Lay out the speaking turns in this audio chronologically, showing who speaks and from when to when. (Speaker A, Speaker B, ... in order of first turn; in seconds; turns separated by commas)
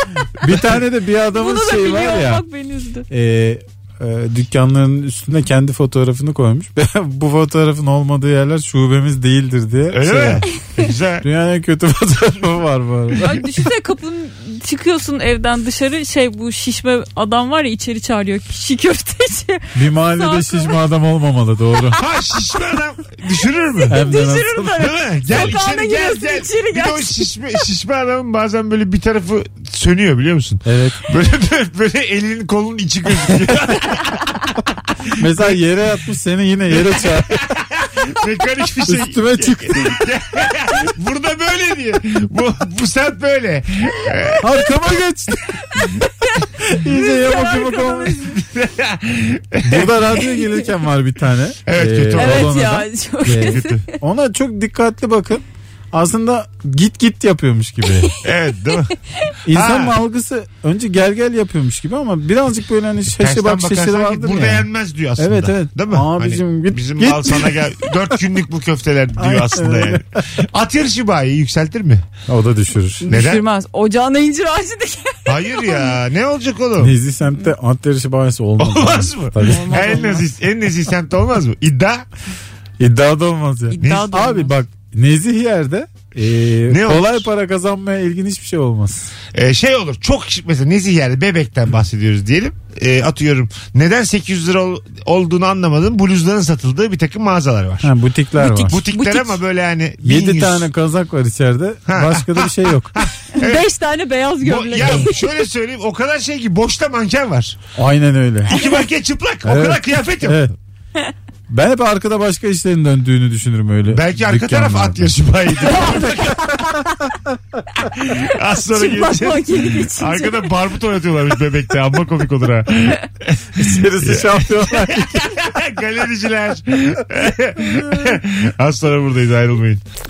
Speaker A: 0.4-2.4, Speaker B: 1.3-3.0, Speaker A: 3.1-10.5, Speaker C: 9.9-11.2, Speaker A: 11.2-13.4, Speaker B: 13.2-20.8, Speaker A: 19.7-22.0, Speaker C: 22.0-24.1, Speaker B: 23.8-27.4, Speaker A: 23.9-24.8, Speaker C: 24.7-34.4, Speaker A: 30.6-31.0, Speaker A: 35.2-37.5, Speaker C: 35.2-35.5, Speaker C: 36.8-44.5, Speaker A: 38.9-40.0, Speaker A: 44.4-45.9, Speaker A: 46.6-48.2, Speaker B: 46.9-48.4, Speaker C: 48.3-49.9, Speaker A: 49.6-58.1, Speaker C: 51.6-52.5, Speaker B: 52.1-53.9, Speaker C: 53.4-53.8, Speaker C: 58.2-58.9, Speaker B: 58.7-59.3, Speaker A: 59.5-67.6, Speaker C: 59.5-59.9, Speaker C: 63.1-72.0, Speaker A: 69.2-70.4, Speaker A: 72.3-73.0, Speaker B: 73.0-76.0, Speaker C: 73.1-73.4, Speaker C: 75.2-77.0, Speaker A: 76.8-80.1, Speaker C: 78.6-82.1, Speaker B: 79.4-80.3, Speaker A: 82.8-89.1, Speaker B: 83.7-84.5, Speaker C: 83.8-84.1, Speaker C: 86.7-87.3, Speaker C: 89.3-97.9, Speaker A: 97.8-98.8, Speaker B: 98.4-99.4, Speaker C: 98.7-100.7, Speaker A: 100.0-103.0, Speaker C: 101.8-103.6, Speaker B: 103.4-105.3, Speaker C: 104.4-107.6, Speaker A: 107.8-108.6, Speaker C: 108.5-110.5, Speaker A: 109.4-110.5, Speaker A: 111.5-115.1, Speaker C: 113.9-116.4, Speaker B: 115.6-117.0, Speaker C: 118.0-129.8, Speaker B: 118.7-120.5, Speaker A: 123.6-125.3